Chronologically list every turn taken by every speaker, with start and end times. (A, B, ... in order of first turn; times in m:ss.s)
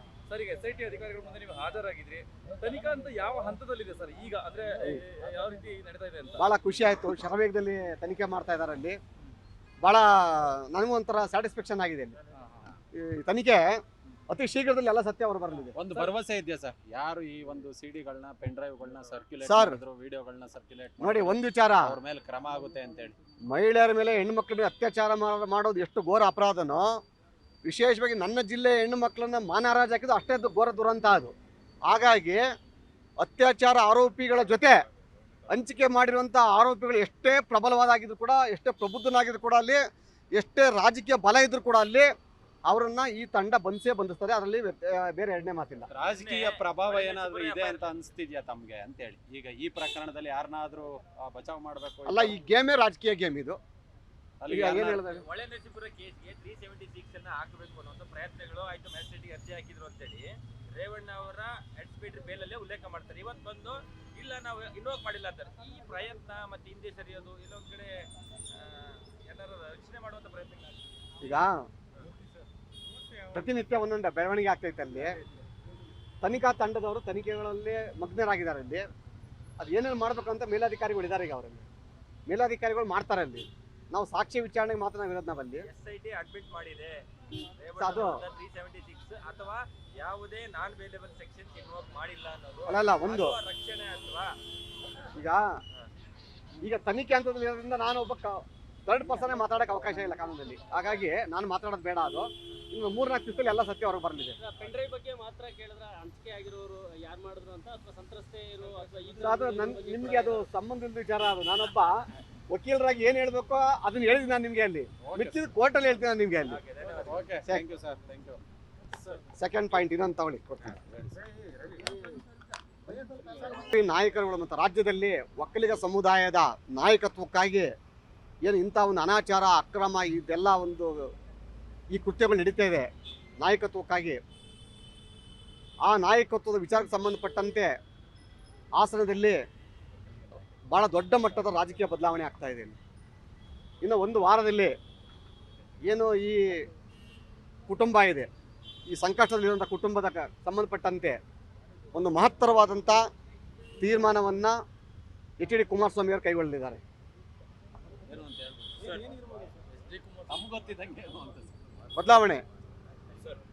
0:00.3-0:06.4 A
0:06.4-0:09.0 B
0:09.8-0:12.2 B
0:12.3-0:12.6 A
0:12.9-0:15.7 B
0:15.8-0:23.2 C
0:19.4-0:19.8 B
0:21.0-0:22.0 B
0:23.5-0:26.9 B
0:27.6-0:31.3 B
0:31.9-0:32.4 B
0:33.2-0:34.8 B
0:35.5-0:39.8 B
0:40.4-0:42.1 B
0:42.7-0:45.9 B
0:45.9-0:52.4 C
0:46.0-0:47.9 D
0:52.0-0:53.6 B
0:54.4-0:55.0 C
0:54.5-0:55.2 B
0:54.5-1:10.9 D
1:11.2-1:11.6 B
1:13.3-1:15.2 B
1:16.2-1:18.8 B
1:19.6-1:21.6 B
1:22.3-1:25.7 B
1:25.6-1:27.0 D
1:27.6-1:34.3 D
1:27.8-1:28.2 B
1:32.6-1:33.4 B
1:35.1-1:35.5 B
1:36.6-1:44.4 B
1:44.4-1:50.4 E
1:49.2-1:51.9 B
1:52.5-1:56.6 B
1:55.0-1:55.5 C
1:56.4-1:57.4 D
1:57.0-1:58.4 C
1:59.3-2:00.8 B
2:00.8-2:01.3 C
2:03.2-2:07.7 B
2:08.4-2:11.1 B
2:11.9-2:12.9 B
2:13.4-2:14.2 B
2:15.9-2:17.7 B
2:18.8-2:19.4 B
2:20.7-2:22.8 B
2:23.8-2:24.7 B
2:25.8-2:26.6 B
2:27.7-2:28.3 B
2:28.9-2:31.2 B
2:31.9-2:33.0 B
2:33.8-2:34.6 B
2:35.4-2:36.8 B
2:38.0-2:39.0 C
2:38.8-2:39.6 E
2:40.0-2:40.2 A
2:40.2-2:41.5 C
2:41.9-2:42.4 B